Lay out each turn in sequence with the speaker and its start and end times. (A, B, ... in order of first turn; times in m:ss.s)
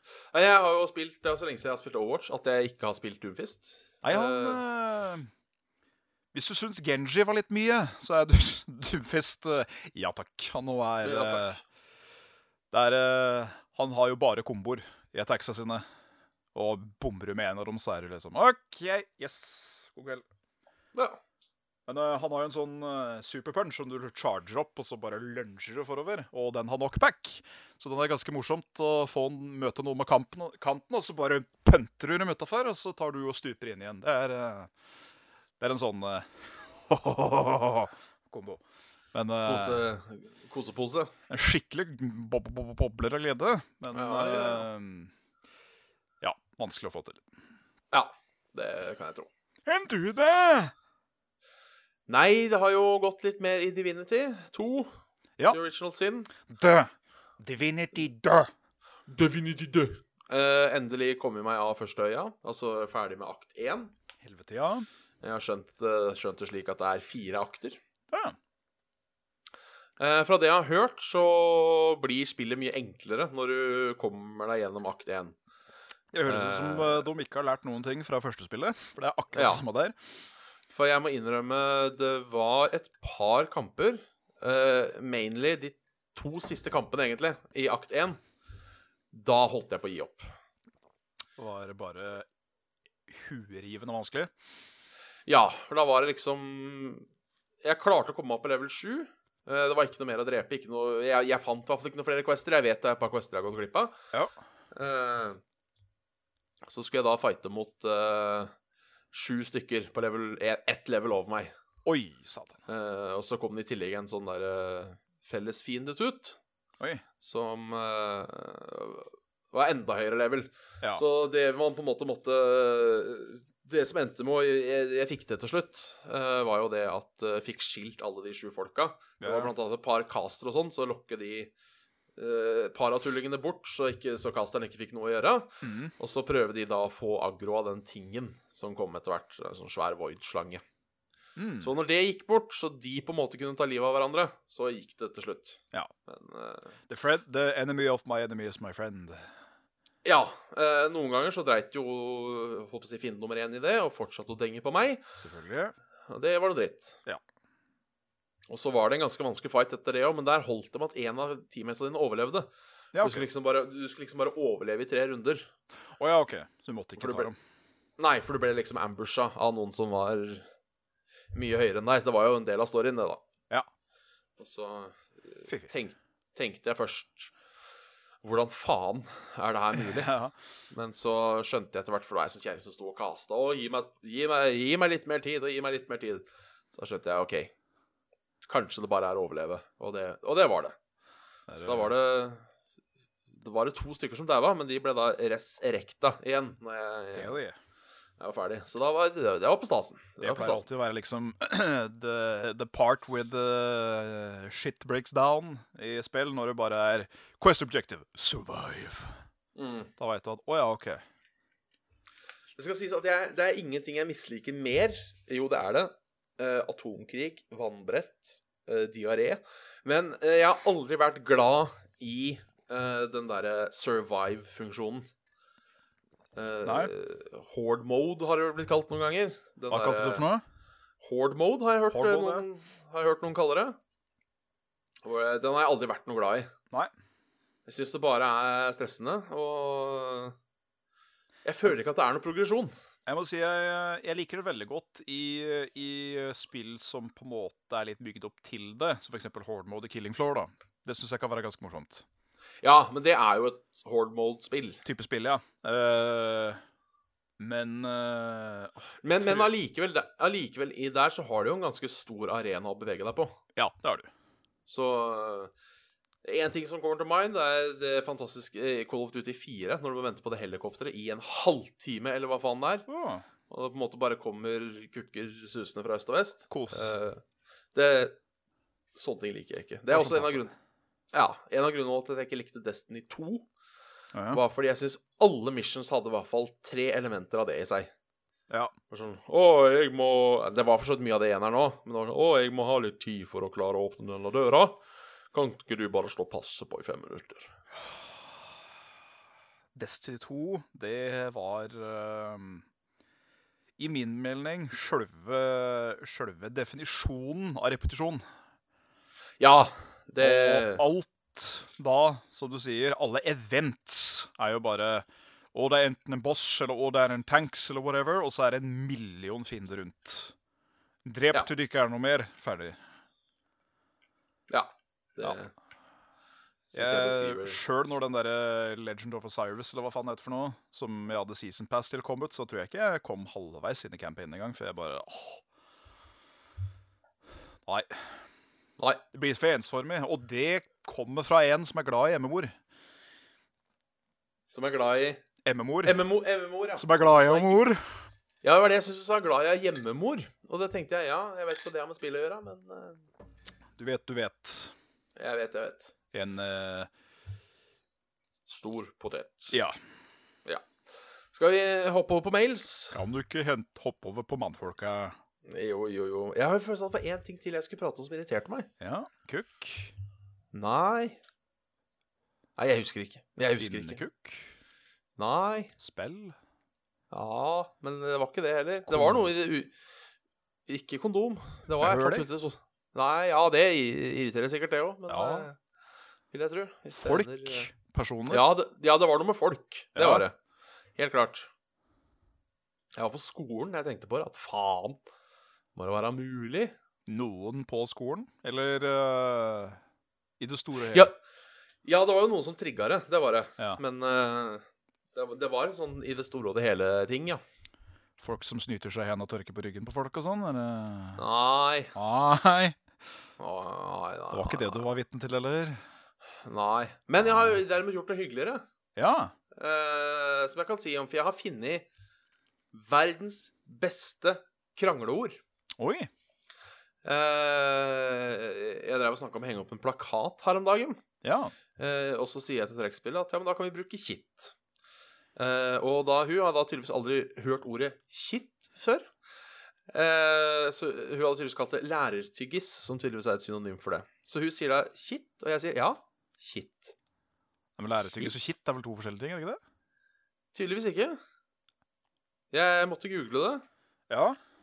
0:00.3-0:04.6 A
0:04.0-0:05.3 B
0:06.3-0:11.6 B
0:11.0-0:11.6 A
0:12.7-0:15.8 B
0:16.6-0:20.2 B
0:20.9-0:21.2 A
0:21.9-0:34.7 B
0:35.6-0:38.6 B
0:39.1-0:39.8 B
0:39.5-0:41.1 A
0:41.3-0:45.1 B
0:43.9-0:44.7 A
0:46.2-0:47.2 B
0:47.9-0:49.3 A
0:49.7-0:50.7 B
0:52.1-0:54.9 A
0:55.5-0:56.3 A
0:56.5-0:58.5 B
0:59.1-1:03.9 A
1:04.2-1:04.9 B
1:05.2-1:07.8 A
1:08.1-1:08.4 B
1:10.0-1:15.4 A
1:16.1-1:20.0 B
1:16.3-1:17.1 A
1:19.3-1:19.6 A
1:20.7-1:28.2 A
1:29.1-1:30.3 A
1:31.4-1:32.3 B
1:33.1-1:34.3 B
1:35.3-1:37.1 A
1:37.6-1:44.0 A
1:44.7-1:45.4 A
1:46.6-1:48.5 A
1:49.1-1:51.5 A
1:51.8-1:52.6 B
1:52.7-1:56.4 A
1:57.2-2:11.5 A
2:09.2-2:09.5 B
2:12.2-2:20.6 A
2:15.6-2:15.9 B
2:21.4-2:21.7 B
2:21.6-2:26.8 A
2:26.9-2:29.3 B
2:30.0-2:35.0 A
2:35.2-2:35.8 B
2:36.1-2:37.0 A
2:38.5-2:45.5 A
2:42.9-2:43.3 B
2:46.0-2:47.4 B
2:47.0-2:47.3 A
2:48.0-2:50.5 A
2:51.3-2:53.2 A
2:54.4-2:57.3 A
2:58.2-3:00.1 A
2:59.8-3:00.3 B
3:00.7-3:07.5 A
3:08.4-3:10.8 A
3:11.5-3:11.9 B
3:11.6-3:12.5 A
3:13.3-3:17.4 A
3:17.2-3:17.6 B
3:18.2-3:20.7 A
3:20.2-3:29.2 B
3:29.6-3:29.9 A
3:30.0-3:31.0 B
3:32.6-3:45.1 A
3:46.4-3:50.3 A
3:46.7-3:46.9 B
3:49.7-3:50.4 B
3:51.0-3:53.8 A
3:51.9-3:52.4 B
3:55.0-3:56.5 A
3:57.7-4:00.4 A
4:01.4-4:02.7 A
4:03.1-4:12.0 B
4:12.6-4:14.8 A
4:14.8-4:16.6 B
4:17.4-4:19.5 B
4:19.0-4:23.4 A
4:23.6-4:24.1 B
4:24.7-4:25.5 A
4:26.2-4:32.9 A
4:32.9-4:33.3 B
4:33.5-4:37.2 A
4:36.5-4:36.9 B
4:37.7-4:38.2 A
4:39.0-4:40.5 A
4:39.9-4:40.5 B
4:41.1-4:43.5 A
4:44.1-4:44.4 B
4:44.3-4:47.9 A
4:48.9-4:54.8 A
4:55.3-4:57.5 A
4:59.8-5:02.6 B
5:03.8-5:08.2 B
5:09.4-5:10.8 A
5:10.2-5:20.3 B
5:21.0-5:22.8 B
5:24.5-5:25.5 A
5:26.7-5:27.6 A
5:26.7-5:35.4 B
5:37.7-5:38.1 B
5:39.1-5:42.5 B
5:44.5-5:45.2 A
5:45.4-5:46.0 B
5:45.8-5:47.6 A
5:46.8-5:47.8 B
5:48.4-5:53.0 A
5:53.8-5:54.7 B
5:55.2-5:55.9 A
5:56.1-5:56.9 B
5:58.5-5:59.6 A
5:59.5-5:59.8 B
6:01.3-6:03.0 A
6:02.9-6:05.2 B
6:05.5-6:08.7 A
6:08.8-6:09.9 B
6:10.5-6:11.2 A
6:12.6-6:14.0 A
6:13.6-6:14.5 B
6:15.2-6:15.7 A
6:15.8-6:16.4 B
6:17.1-6:19.7 A
6:18.9-6:19.3 B
6:20.7-6:25.6 A
6:21.8-6:22.3 B
6:25.1-6:25.5 B
6:26.3-6:27.7 A
6:27.0-6:28.5 B
6:28.3-6:30.4 A
6:30.0-6:30.2 B
6:31.0-6:31.5 A
6:33.0-6:35.0 A
6:35.8-6:36.7 A
6:37.1-6:39.8 B
6:40.4-6:41.1 B
6:40.9-6:41.2 A
6:41.8-6:47.4 A
6:48.2-6:51.2 B
6:51.2-6:52.0 A
6:52.0-6:52.8 B
6:53.4-6:54.8 A
6:54.3-6:55.8 B
6:56.4-6:58.6 A
6:57.2-6:57.6 B
6:59.0-6:59.3 B
6:59.6-7:01.9 A
7:02.7-7:05.4 A
7:05.8-7:06.1 B
7:07.0-7:11.0 A
7:11.2-7:11.5 B
7:11.8-7:14.5 A
7:15.4-7:19.1 A
7:19.9-7:27.0 A
7:27.8-7:29.6 B
7:30.5-7:31.2 A
7:32.5-7:33.6 A
7:34.1-7:34.4 B